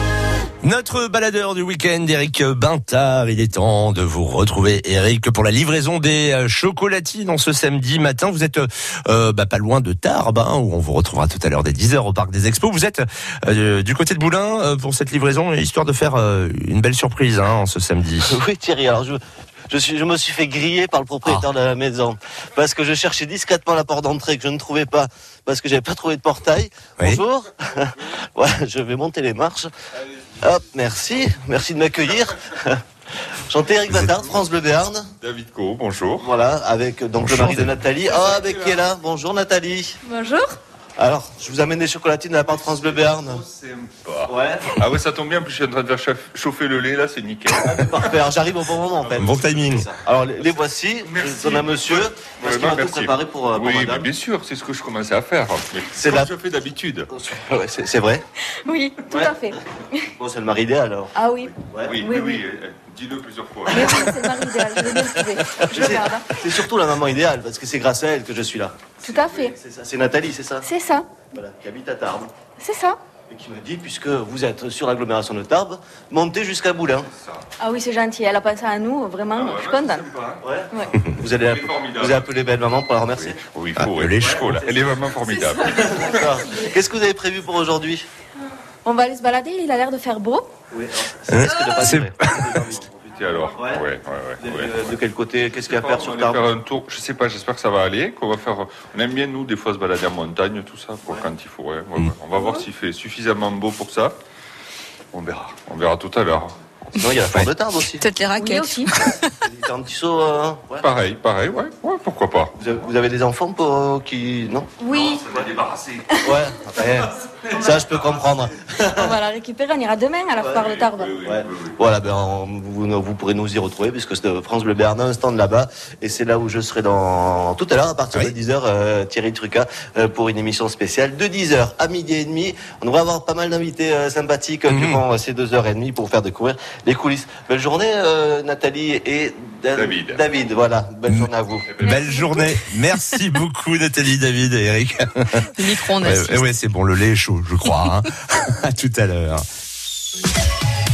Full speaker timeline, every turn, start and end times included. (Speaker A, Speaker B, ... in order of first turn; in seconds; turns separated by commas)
Speaker A: 0.6-18.3, Speaker B: 18.2-29.7, Speaker B: 30.4-32.8, Speaker B: 33.5-35.1, Speaker C: 35.2-36.3, Speaker B: 36.2-40.0, Speaker A: 37.2-37.7, Speaker C: 38.1-38.5, Speaker D: 40.0-40.6, Speaker B: 41.0-43.4, Speaker C: 42.5-48.1, Speaker B: 44.3-44.8, Speaker B: 47.6-54.1, Speaker C: 49.0-49.4, Speaker A: 49.2-49.9, Speaker C: 51.0-57.1, Speaker B: 55.9-56.3, Speaker B: 57.1-58.2, Speaker D: 58.6-59.6, Speaker B: 59.1-59.4, Speaker B: 60.1-62.0, Speaker D: 61.1-62.4, Speaker C: 61.8-64.1, Speaker B: 63.7-70.7, Speaker D: 63.7-66.3, Speaker D: 69.0-69.5, Speaker D: 70.6-71.1, Speaker B: 71.3-72.3, Speaker D: 72.6-73.0, Speaker B: 73.3-77.1, Speaker C: 77.1-77.4, Speaker D: 77.6-80.0, Speaker C: 79.3-80.5, Speaker B: 80.4-83.4, Speaker C: 81.2-82.3, Speaker C: 83.1-86.4, Speaker A: 83.8-84.5, Speaker B: 84.2-88.1, Speaker D: 88.8-90.5, Speaker B: 90.7-93.8, Speaker A: 91.3-92.7, Speaker C: 93.0-94.9, Speaker B: 94.4-96.4, Speaker C: 95.5-104.2, Speaker C: 105.1-106.5, Speaker B: 107.0-108.0, Speaker E: 108.0-109.2, Speaker D: 108.2-109.0, Speaker B: 109.4-110.9, Speaker C: 110.8-112.5, Speaker B: 112.5-115.5, Speaker D: 114.8-115.2, Speaker C: 114.9-116.2, Speaker B: 116.2-119.2, Speaker C: 117.5-118.4, Speaker D: 119.0-121.1, Speaker B: 120.4-141.7, Speaker C: 120.6-121.8, Speaker A: 134.7-135.0, Speaker C: 139.7-140.2, Speaker C: 141.6-142.1, Speaker A: 141.8-149.4, Speaker E: 141.8-142.4, Speaker E: 145.6-146.5